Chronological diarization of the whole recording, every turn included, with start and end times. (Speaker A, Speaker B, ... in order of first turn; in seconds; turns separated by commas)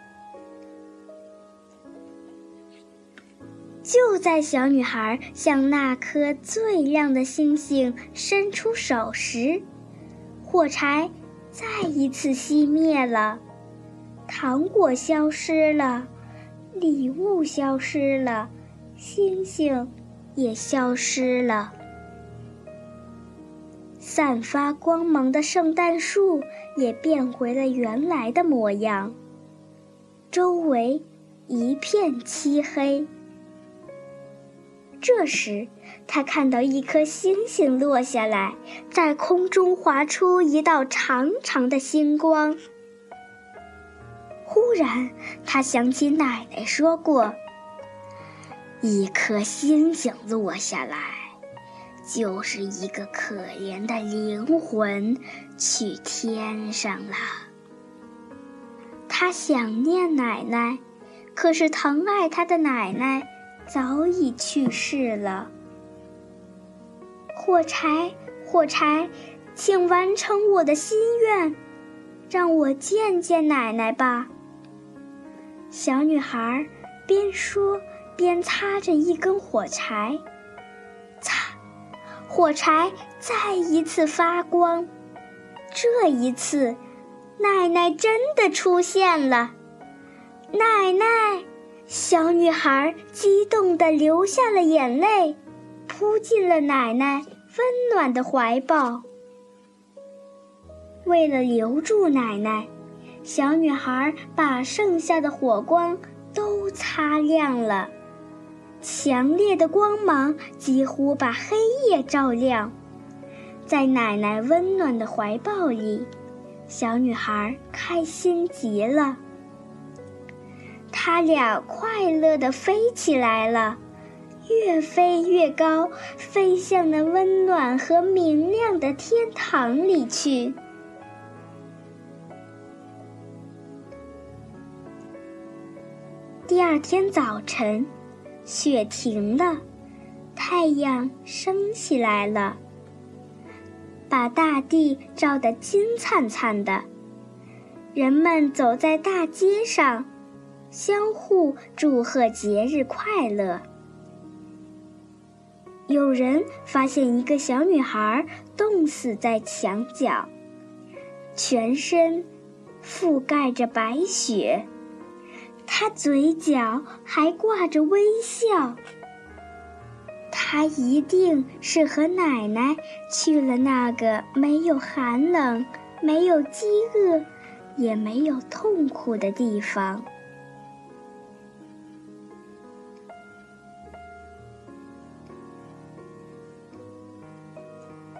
Speaker A: 3.8-9.6, Speaker A: 10.4-13.4, Speaker A: 14.3-16.1, Speaker A: 16.7-21.7, Speaker A: 24.0-29.1, Speaker A: 30.3-33.1, Speaker A: 35.0-42.6, Speaker A: 44.5-47.4, Speaker A: 48.8-51.3, Speaker A: 52.0-57.4, Speaker A: 59.1-60.8, Speaker A: 61.3-65.5, Speaker A: 67.3-71.6, Speaker A: 72.3-74.3, Speaker A: 75.7-80.2, Speaker A: 81.2-81.5, Speaker A: 82.3-84.9, Speaker A: 85.7-86.8, Speaker A: 87.4-89.5, Speaker A: 90.5-99.0, Speaker A: 101.0-102.7, Speaker A: 103.2-107.9, Speaker A: 108.8-112.7, Speaker A: 113.7-116.1, Speaker A: 116.7-119.2, Speaker A: 120.9-123.8, Speaker A: 124.5-130.6, Speaker A: 136.5-137.9, Speaker A: 138.4-139.6, Speaker A: 140.3-142.6, Speaker A: 144.1-146.9, Speaker A: 147.9-150.1, Speaker A: 150.7-153.6, Speaker A: 155.9-160.3, Speaker A: 161.3-162.3, Speaker A: 162.8-164.7, Speaker A: 165.7-168.8, Speaker A: 170.3-180.1